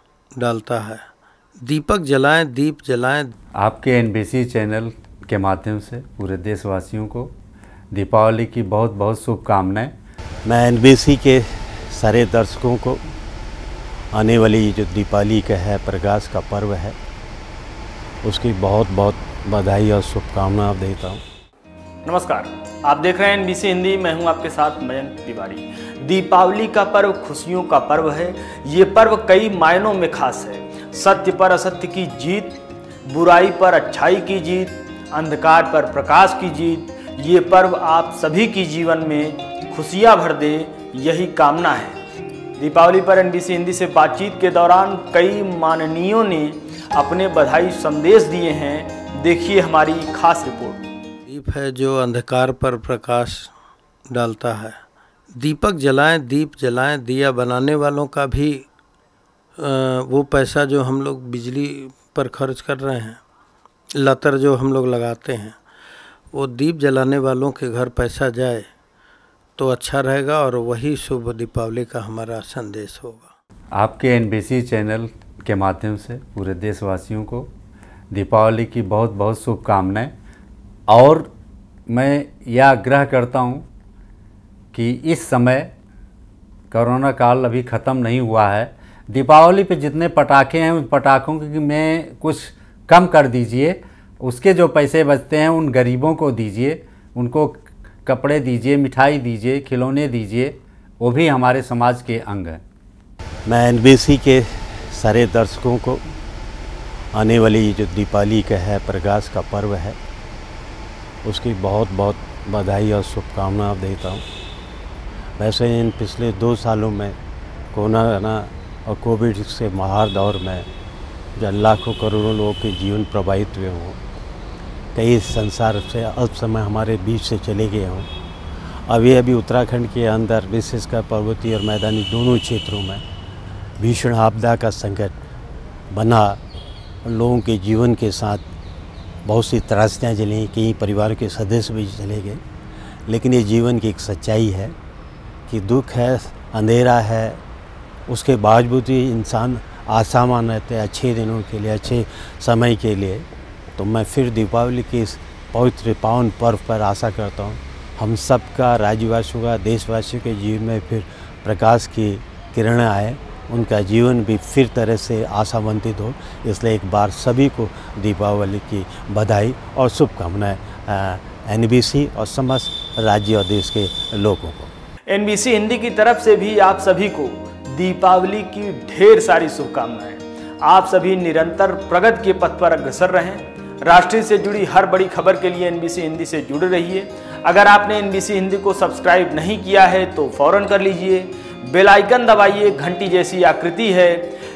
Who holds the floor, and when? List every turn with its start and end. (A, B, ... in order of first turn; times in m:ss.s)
0:00.4-0:01.0 A
0:01.6-0:03.3 A
0:03.6-0:07.3 B
0:07.9-0:09.9 B
0:10.4-0:13.0 C
0:14.1-0:17.0 C
0:18.2-0:21.2 C
0:22.0-0:42.0 D
0:42.6-0:50.9 D
0:51.2-0:53.5 A
0:54.1-0:54.8 A
0:55.4-0:58.6 A
0:59.6-1:03.2 A
1:04.0-1:05.6 A
1:06.3-1:08.7 A
1:09.6-1:13.3 A
1:13.7-1:17.5 B
1:18.1-1:20.1 B
1:20.9-1:21.3 B
1:21.9-1:23.6 B
1:24.7-1:25.7 B
1:26.7-1:42.6 B
1:43.4-1:46.0 C
1:47.1-1:50.0 C
1:51.2-1:54.2 C
1:55.4-1:57.2 C
1:57.7-2:00.6 C
2:01.4-2:04.0 C
2:04.9-2:08.1 C
2:08.9-2:13.0 C
2:13.8-2:15.1 C
2:15.9-2:16.4 C
2:17.0-2:18.4 C
2:19.2-2:22.4 C
2:23.1-2:24.7 C
2:25.5-2:27.4 C
2:28.1-2:33.2 C
2:33.8-2:54.7 C
2:55.1-3:14.4 D